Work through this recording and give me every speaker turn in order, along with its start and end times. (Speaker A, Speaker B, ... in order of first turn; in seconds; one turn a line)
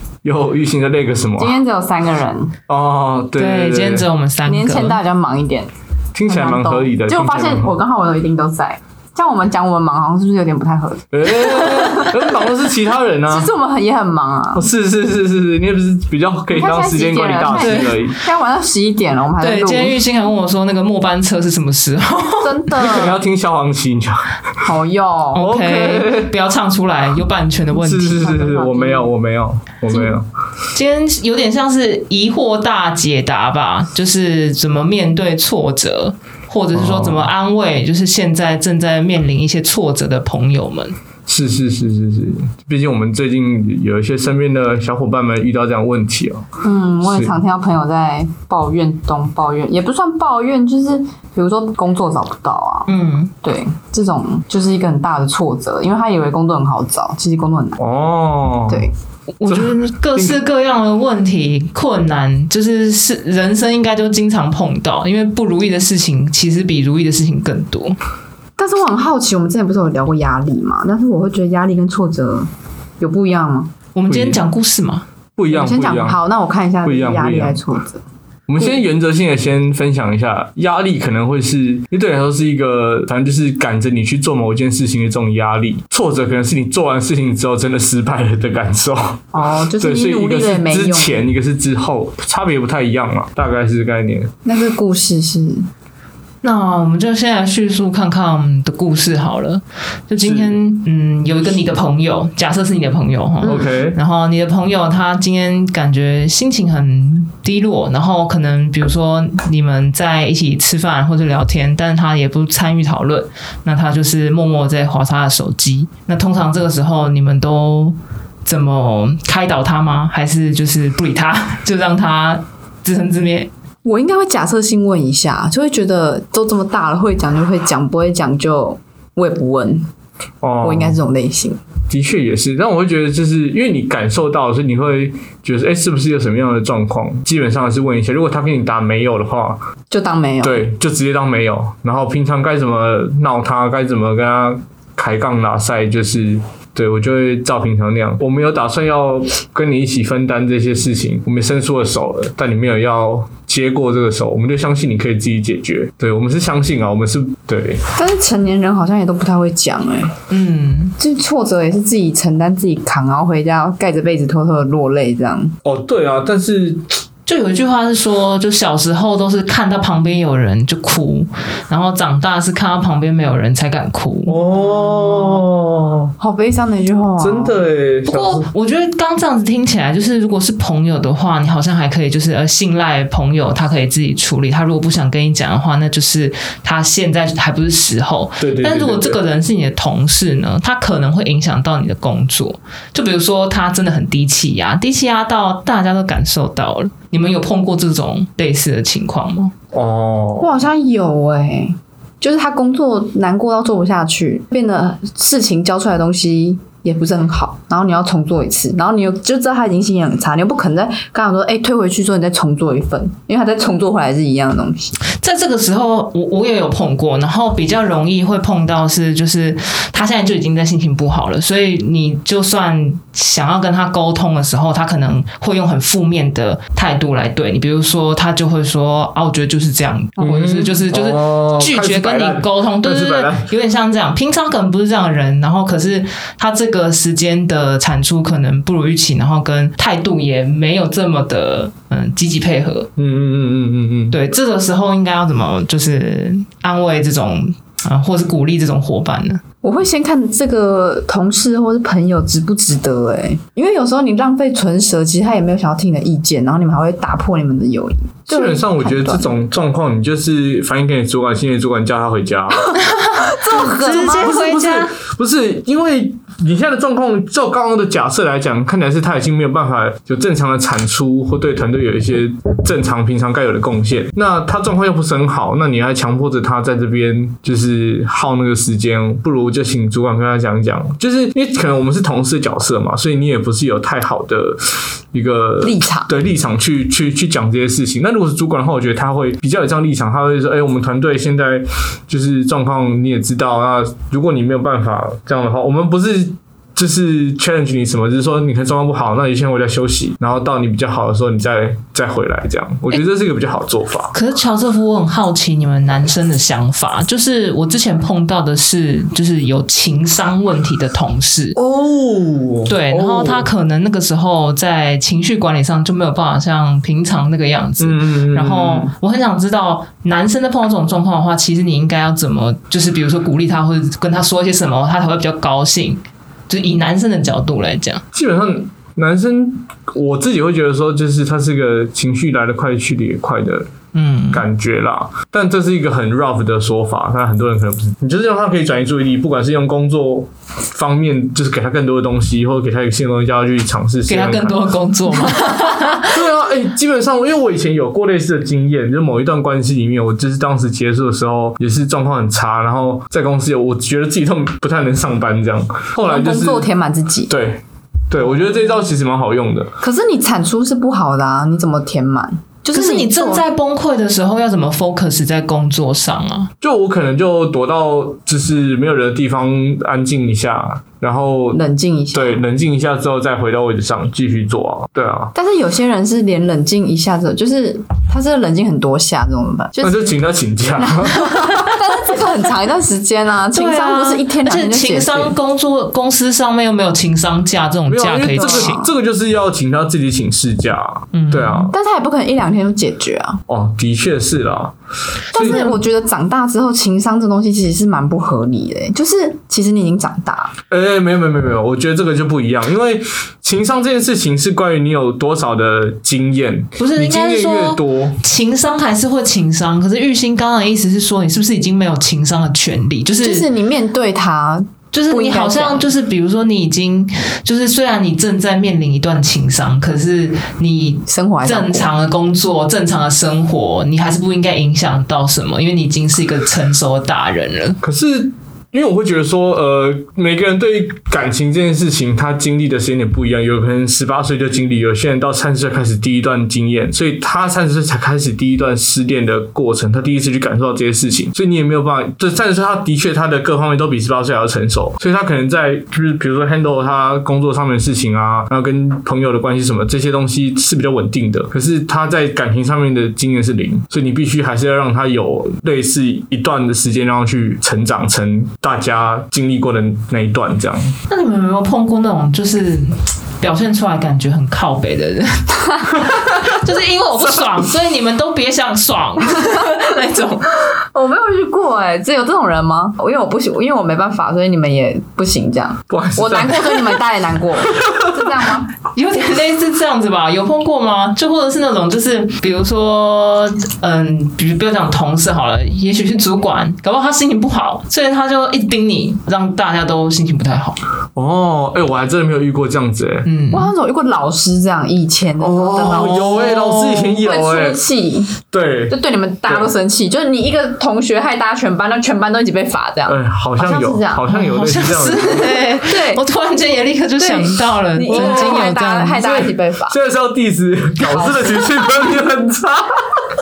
Speaker A: 0.2-1.6
Speaker B: 1.4-2.5
Speaker A: 2.7-4.0
Speaker C: 3.4-5.0
Speaker B: 4.5-5.7
Speaker A: 6.1-7.7
Speaker B: 6.2-12.5
Speaker A: 11.1-13.5
Speaker B: 13.3-14.7
Speaker A: 14.5-18.2
Speaker B: 16.5-20.0
Speaker C: 17.5-18.0
Speaker C: 19.4-22.9
Speaker B: 22.4-23.2
Speaker A: 22.8-24.7
Speaker B: 24.6-25.5
Speaker C: 25.3-28.5
Speaker A: 25.4-26.3
Speaker A: 27.7-30.2
Speaker B: 28.1-29.1
Speaker C: 30.7-40.9
Speaker A: 36.7-37.3
Speaker A: 41.3-46.5
Speaker B: 46.6-52.9
Speaker A: 47.0-47.3
Speaker C: 52.9-53.3
Speaker B: 53.4-57.8
Speaker A: 57.8-58.9
Speaker C: 59.4-68.0
Speaker A: 59.5-60.4
Speaker B: 68.6-72.5
Speaker B: 73.0-73.7
Speaker C: 73.9-75.0
Speaker A: 74.1-74.4
Speaker A: 75.3-76.2
Speaker B: 75.5-78.0
Speaker A: 76.8-77.6
Speaker A: 78.5-89.2
Speaker B: 89.3-91.2
Speaker A: 89.8-94.3
Speaker B: 94.4-95.6
Speaker C: 96.4-123.5
Speaker A: 100.2-100.6
Speaker A: 103.4-104.0
Speaker B: 123.8-129.8
Speaker A: 130.4-131.0
Speaker B: 130.6-131.6
Speaker A: 131.9-139.6
Speaker B: 139.9-140.6
Speaker A: 140.4-157.8
Speaker B: 157.9-160.2
Speaker C: 160.3-160.9
Speaker B: 161.0-165.5
Speaker A: 165.6-167.0
Speaker C: 167.2-174.4
Speaker A: 174.3-176.1
Speaker B: 176.2-177.6
Speaker A: 177.2-178.5
Speaker C: 178.1-199.5
Speaker A: 188.4-189.2
Speaker A: 199.7-200.6
Speaker B: 200.4-215.0
Speaker C: 215.1-242.9
Speaker A: 230.2-233.5
Speaker A: 243.0-244.2
Speaker C: 244.1-249.4
Speaker B: 249.6-259.3
Speaker A: 258.3-262.7
Speaker C: 262.8-264.9
Speaker B: 263.3-264.4
Speaker A: 263.9-304.1
Speaker B: 285.6-286.1
Speaker C: 304.1-311.6
Speaker A: 311.6-313.5
Speaker C: 312.7-328.0
Speaker A: 317.8-318.9
Speaker A: 328.1-333.7
Speaker C: 333.9-334.4
Speaker A: 334.3-344.7
Speaker C: 344.1-346.1
Speaker A: 346.0-356.7
Speaker B: 356.0-357.3
Speaker A: 357.3-359.7
Speaker B: 359.8-363.4
Speaker C: 362.7-366.5
Speaker A: 366.6-371.6
Speaker B: 371.5-372.4
Speaker A: 372.1-375.3
Speaker B: 375.3-380.1
Speaker A: 379.8-381.7
Speaker B: 380.8-385.3
Speaker C: 383.5-388.8
Speaker A: 387.9-391.7
Speaker B: 388.4-388.9
Speaker C: 391.1-391.7
Speaker B: 391.7-393.4
Speaker A: 393.5-394.7
Speaker A: 395.3-395.6
Speaker C: 395.3-395.8
Speaker B: 395.3-400.5
Speaker A: 400.7-408.2
Speaker C: 406.8-413.5
Speaker B: 413.2-415.9
Speaker C: 414.9-427.8
Speaker B: 421.1-421.9
Speaker A: 427.8-460.9
Speaker C: 461.1-470.7
Speaker B: 469.3-469.8
Speaker B: 470.8-478.7
Speaker A: 475.9-477.0
Speaker A: 477.6-478.4
Speaker C: 478.9-490.8
Speaker A: 491.1-493.3
Speaker C: 493.2-493.7
Speaker B: 493.5-504.2
Speaker A: 495.4-497.8
Speaker C: 495.8-497.0
Speaker A: 498.5-499.7
Speaker A: 503.1-505.6
Speaker C: 504.3-509.2
Speaker B: 505.8-506.2
Speaker B: 507.2-509.9
Speaker A: 508.1-513.2
Speaker B: 511.1-512.0